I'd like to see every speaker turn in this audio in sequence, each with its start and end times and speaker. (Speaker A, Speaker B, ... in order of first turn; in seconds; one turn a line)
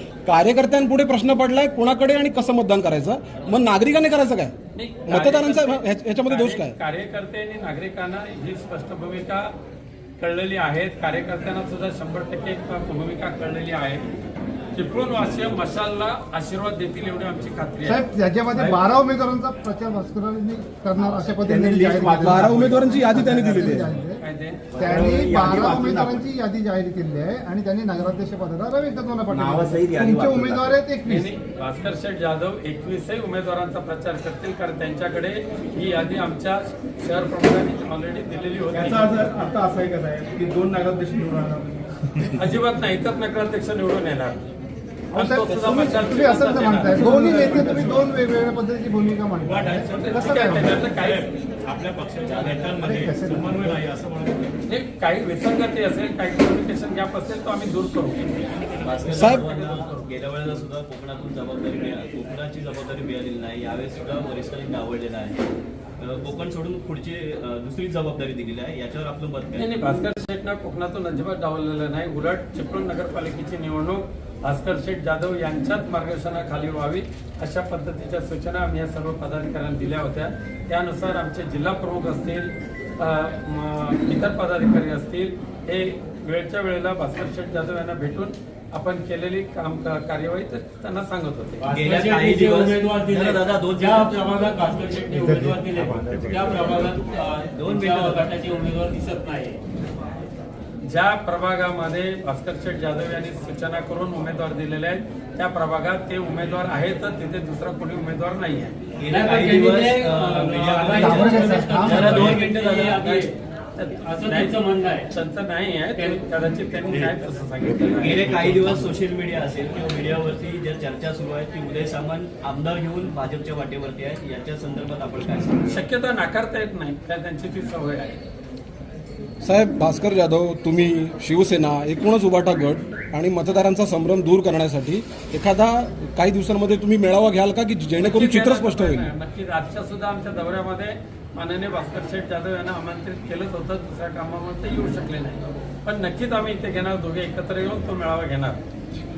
Speaker A: 0.3-4.5
Speaker B: 4.8-9.5
Speaker A: 5.1-6.8
Speaker B: 10.2-14.0
Speaker B: 14.8-18.8
Speaker C: 17.9-24.2
Speaker D: 21.1-22.9
Speaker A: 22.1-23.9
Speaker B: 24.2-24.6
Speaker D: 24.7-26.2
Speaker C: 24.8-31.3
Speaker D: 29.3-30.8
Speaker B: 31.1-39.3
Speaker D: 39.6-41.6
Speaker C: 39.8-40.3
Speaker B: 42.4-44.4
Speaker C: 45.1-50.9
Speaker B: 45.1-47.2
Speaker E: 47.2-48.1
Speaker E: 49.4-54.6
Speaker B: 49.9-51.3
Speaker F: 52.3-52.6
Speaker C: 52.8-53.8
Speaker B: 54.7-58.2
Speaker F: 58.8-65.4
Speaker B: 59.1-60.0
Speaker A: 59.1-59.5
Speaker F: 66.0-69.8
Speaker B: 69.6-91.7
Speaker G: 91.6-99.6
Speaker F: 91.7-94.5
Speaker C: 95.2-95.6
Speaker D: 96.0-96.5
Speaker F: 97.6-98.3
Speaker B: 100.8-108.8
Speaker F: 109.0-113.1
Speaker G: 109.1-113.3
Speaker C: 111.0-112.2
Speaker B: 111.9-114.6
Speaker G: 114.0-115.1
Speaker B: 115.1-118.3
Speaker G: 116.0-116.2
Speaker F: 118.0-125.7
Speaker B: 125.7-128.2
Speaker A: 129.4-139.1
Speaker B: 138.0-148.6